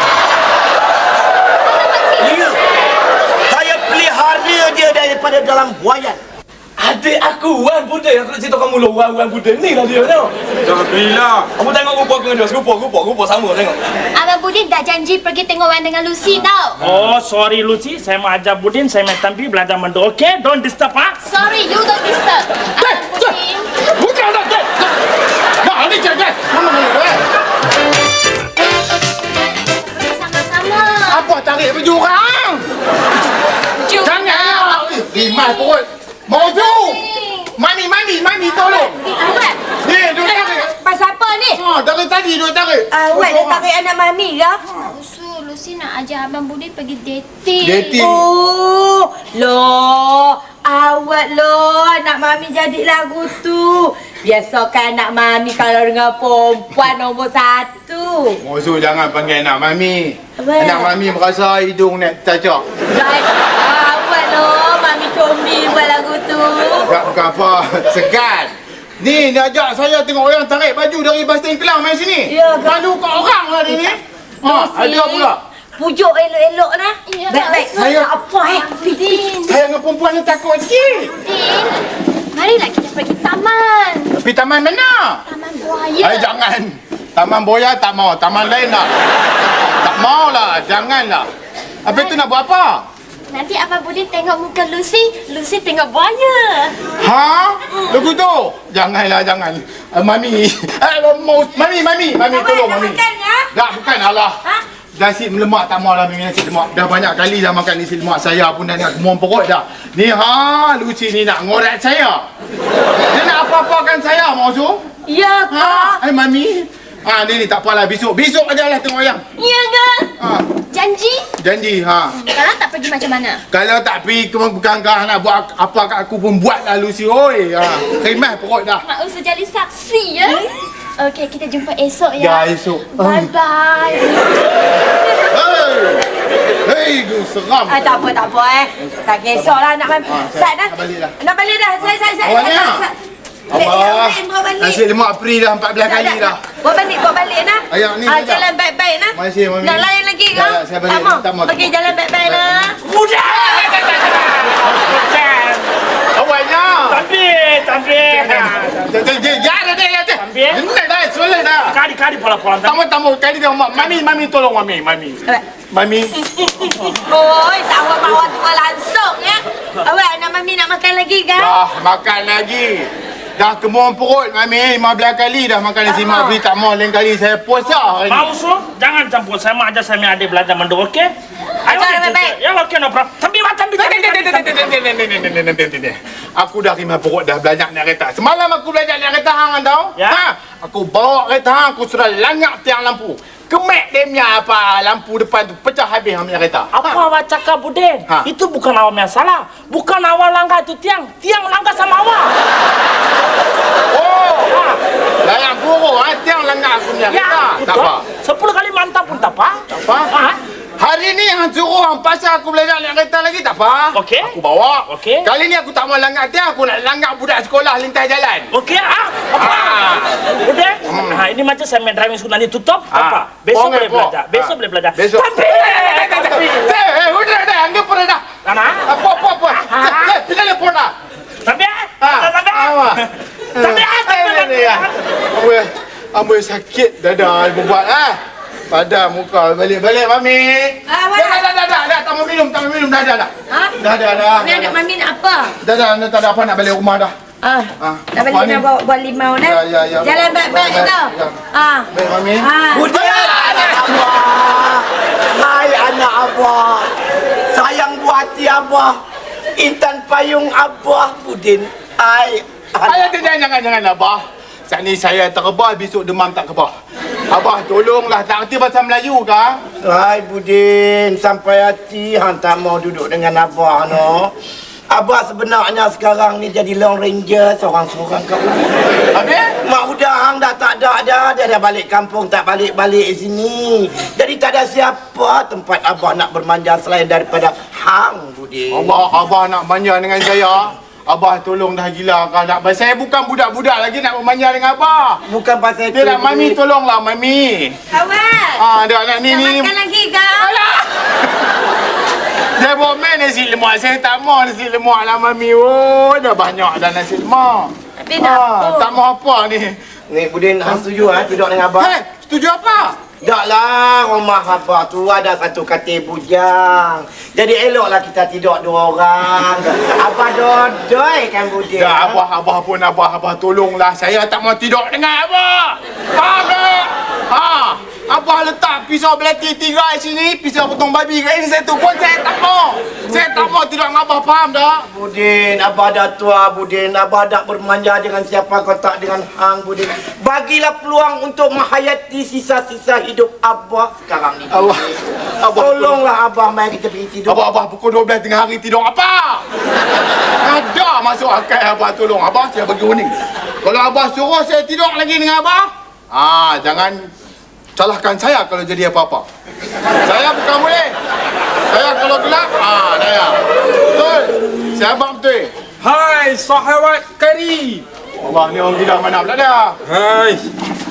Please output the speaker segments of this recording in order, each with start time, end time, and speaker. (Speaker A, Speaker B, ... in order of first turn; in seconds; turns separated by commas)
Speaker A: 2.2-2.6, Speaker A: 3.5-6.2, Speaker B: 6.8-10.3, Speaker C: 10.7-11.5, Speaker B: 11.6-13.8, Speaker D: 14.2-16.7, Speaker E: 16.8-21.2, Speaker D: 21.2-23.7, Speaker F: 22.8-24.9, Speaker F: 25.6-27.2, Speaker D: 29.8-31.2, Speaker F: 31.1-32.7, Speaker D: 33.9-34.6, Speaker F: 34.0-39.0, Speaker D: 35.1-35.7, Speaker D: 36.3-37.5, Speaker G: 39.0-39.6, Speaker D: 39.1-39.4, Speaker F: 39.8-40.8, Speaker G: 40.2-41.6, Speaker F: 41.5-43.7, Speaker G: 42.9-44.6, Speaker D: 44.8-47.9, Speaker F: 47.6-48.2, Speaker G: 47.8-58.4, Speaker F: 58.4-62.6, Speaker G: 60.4-60.9, Speaker G: 62.9-66.9, Speaker F: 66.9-75.4, Speaker G: 72.3-72.8, Speaker G: 74.4-79.4, Speaker D: 77.1-77.6, Speaker F: 77.7-78.1, Speaker D: 78.6-79.5, Speaker F: 79.4-81.1, Speaker D: 81.2-81.8, Speaker D: 82.3-84.1, Speaker F: 84.2-85.2, Speaker D: 85.3-86.3, Speaker F: 86.0-88.9, Speaker F: 89.8-91.3, Speaker F: 91.9-92.8, Speaker D: 91.9-92.2, Speaker D: 93.3-96.7, Speaker F: 97.0-103.0, Speaker G: 102.3-103.5, Speaker F: 103.5-104.4, Speaker F: 105.0-112.2, Speaker F: 113.1-114.8, Speaker G: 115.1-116.0, Speaker F: 115.5-119.2, Speaker D: 119.4-120.1, Speaker F: 120.2-120.5, Speaker D: 120.7-121.3, Speaker F: 121.4-122.2, Speaker D: 122.2-123.4, Speaker F: 123.5-128.8, Speaker D: 128.8-134.3, Speaker F: 132.2-133.3, Speaker F: 135.3-136.0, Speaker F: 136.6-137.9, Speaker G: 137.7-142.9, Speaker F: 139.3-141.1, Speaker F: 142.2-142.9, Speaker G: 143.5-144.8, Speaker F: 143.5-146.4, Speaker G: 145.8-152.8, Speaker F: 147.7-148.5, Speaker F: 149.1-155.0, Speaker E: 154.8-155.6, Speaker F: 156.2-157.1, Speaker E: 156.8-158.8, Speaker F: 158.2-161.8, Speaker E: 160.2-160.6, Speaker E: 161.7-162.8, Speaker F: 162.6-166.1, Speaker G: 166.4-171.6, Speaker F: 171.3-178.3, Speaker G: 175.9-176.4, Speaker E: 178.0-181.1, Speaker E: 181.7-184.6, Speaker G: 181.7-182.4, Speaker F: 183.8-197.0, Speaker E: 190.0-190.2, Speaker E: 196.7-202.3, Speaker F: 203.9-204.5, Speaker E: 204.5-204.8, Speaker F: 205.2-208.1, Speaker E: 207.1-209.6, Speaker F: 209.7-210.1, Speaker E: 210.1-210.4, Speaker F: 210.8-218.5, Speaker E: 213.9-214.3, Speaker E: 214.9-215.3, Speaker E: 218.5-226.7, Speaker F: 219.3-220.1, Speaker F: 220.8-221.2, Speaker F: 222.9-228.2, Speaker E: 228.4-228.8, Speaker F: 228.8-230.9, Speaker E: 229.6-230.1, Speaker E: 231.4-233.1, Speaker F: 232.0-233.0, Speaker F: 233.6-238.2, Speaker E: 233.6-234.9, Speaker F: 238.7-244.7, Speaker G: 240.9-241.4, Speaker G: 243.5-245.5, Speaker F: 245.6-247.1, Speaker G: 247.4-251.9, Speaker F: 247.8-248.7, Speaker F: 249.4-251.4, Speaker F: 251.9-253.8, Speaker G: 252.4-253.0, Speaker A: 252.7-256.9, Speaker A: 257.5-258.9, Speaker A: 259.6-263.3, Speaker F: 262.8-266.7, Speaker F: 267.3-269.6, Speaker A: 269.8-274.3, Speaker A: 274.9-278.7, Speaker F: 279.1-279.5, Speaker A: 279.6-289.0, Speaker F: 288.7-295.2, Speaker A: 295.3-296.6, Speaker F: 295.9-297.8, Speaker G: 297.9-298.6, Speaker F: 298.6-299.7, Speaker G: 299.3-300.5, Speaker F: 300.4-301.1, Speaker F: 302.6-309.8, Speaker G: 308.0-308.9, Speaker A: 310.1-312.0, Speaker F: 311.8-313.0, Speaker A: 313.2-322.2, Speaker F: 321.8-334.9, Speaker A: 333.2-333.5, Speaker A: 334.9-344.8, Speaker F: 344.5-344.9, Speaker F: 345.4-346.1, Speaker A: 345.6-347.4, Speaker F: 347.3-349.4, Speaker F: 350.4-357.1, Speaker F: 357.8-359.3, Speaker F: 360.0-360.9, Speaker F: 361.7-365.5, Speaker C: 365.8-367.8, Speaker F: 368.2-369.8, Speaker C: 369.9-370.4